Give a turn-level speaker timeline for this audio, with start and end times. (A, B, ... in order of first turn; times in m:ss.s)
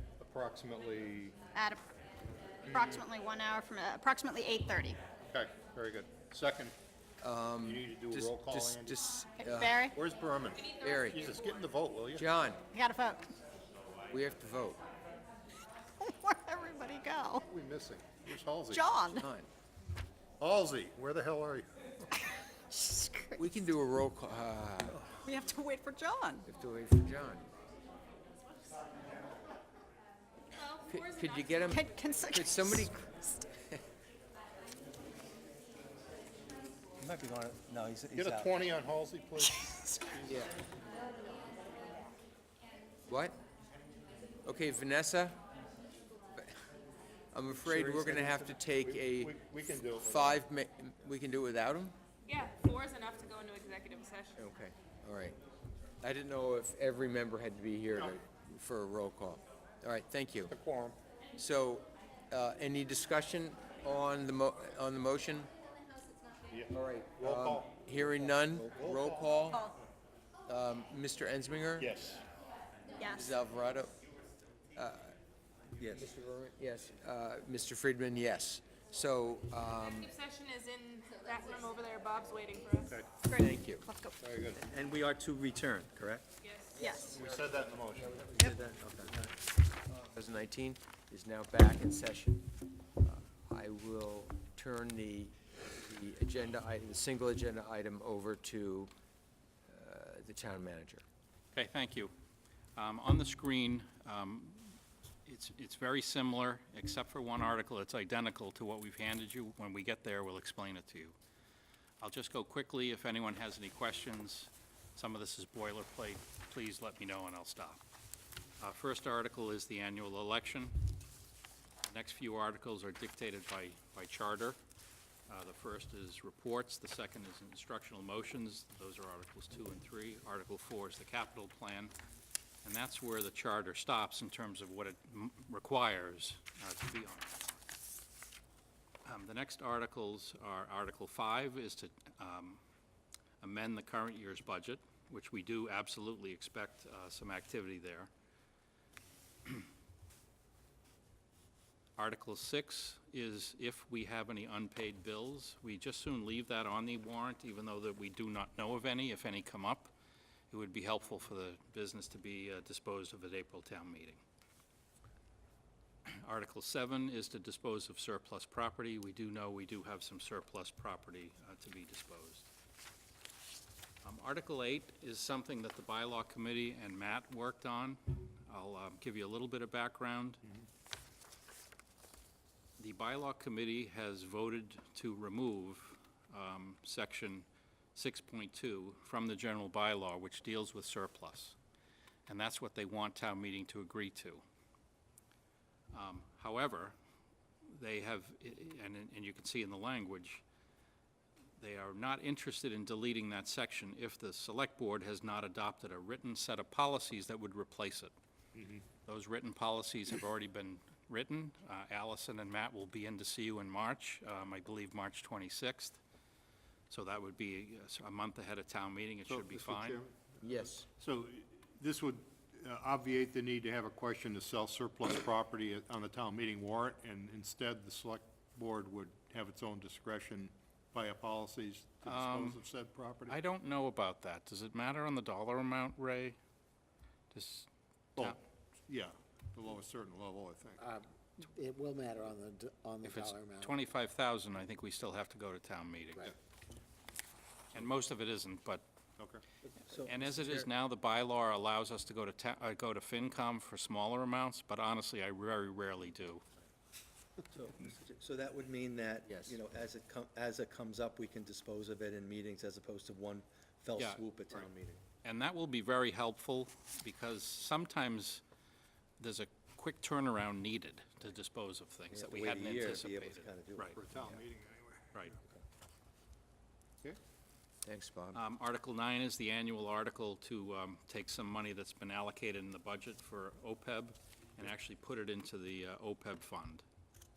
0:00.2-0:01.4 A
0:01.6-0:01.8 B
0:02.6-0:05.0 B
0:02.7-0:03.0 A
0:05.3-0:06.8 A
0:07.2-0:09.8 C
0:07.6-0:09.0 A
0:09.4-0:10.0 B
0:09.9-0:12.3 A
0:10.5-0:11.8 D
0:10.8-0:11.3 C
0:12.2-0:12.6 C
0:12.7-0:13.3 B
0:14.1-0:14.8 C
0:16.0-0:17.4 B
0:17.5-0:18.9 A
0:18.7-0:19.3 B
0:19.1-0:19.5 C
0:20.4-0:21.7 A
0:22.1-0:23.4 B
0:23.4-0:25.0 C
0:25.2-0:26.5 B
0:26.5-0:27.5 C
0:30.5-0:32.0 D
0:30.9-0:33.0 C
0:31.7-0:33.5 B
0:37.0-0:38.6 E
0:38.1-0:40.5 A
0:40.2-0:40.5 C
0:43.1-0:43.4 C
0:44.4-0:45.4 C
0:47.3-0:52.0 C
0:47.5-0:50.4 A
0:52.3-0:54.4 D
0:54.4-0:55.4 C
0:56.0-1:00.5 C
0:57.9-0:58.2 A
1:00.5-1:01.0 A
1:01.4-1:05.5 C
1:06.5-1:09.4 A
1:06.7-1:09.6 C
1:10.5-1:11.9 C
1:11.8-1:12.2 A
1:13.0-1:13.4 B
1:13.1-1:13.9 C
1:14.8-1:15.2 C
1:15.8-1:16.1 E
1:15.9-1:20.1 C
1:19.8-1:23.0 D
1:23.2-1:24.2 B
1:23.4-1:23.8 C
1:24.2-1:24.6 A
1:24.5-1:26.3 E
1:26.4-1:26.9 D
1:26.8-1:27.1 B
1:26.8-1:29.1 C
1:27.1-1:28.3 A
1:28.3-1:29.2 E
1:29.9-1:32.4 C
1:33.0-1:38.9 C
1:39.7-1:41.0 C
1:41.5-1:42.1 F
1:42.8-1:51.2 F
1:52.0-1:57.8 F
1:58.6-2:00.9 F
2:01.8-2:04.6 F
2:05.3-2:11.9 F
2:12.6-2:17.6 F
2:19.0-2:22.6 F
2:23.4-2:28.1 F
2:32.0-2:39.9 F
2:40.5-2:44.2 F
2:46.1-2:52.5 F
2:54.0-3:00.4 F
3:02.8-3:11.6 F
3:12.3-3:14.4 F
3:15.9-3:17.0 F
3:17.7-3:20.4 F
3:21.6-3:28.1 F
3:28.6-3:28.8 A
3:29.0-3:36.0 F
3:36.9-3:40.0 F
3:39.3-3:53.4 A
3:40.4-3:40.9 C
3:52.0-3:52.6 F
3:53.3-3:56.4 F
3:57.3-3:58.4 F
3:58.2-4:00.8 A
4:00.8-4:03.8 G
4:03.0-4:06.3 F
4:07.7-4:08.9 F
4:09.2-4:09.4 A
4:09.7-4:10.7 E
4:09.9-4:16.4 F
4:17.5-4:25.0 E
4:24.0-4:24.3 F
4:25.2-4:28.4 F
4:29.2-4:34.0 F
4:32.1-4:34.0 E
4:33.9-4:35.3 A
4:37.8-4:38.4 C
4:38.3-4:46.8 F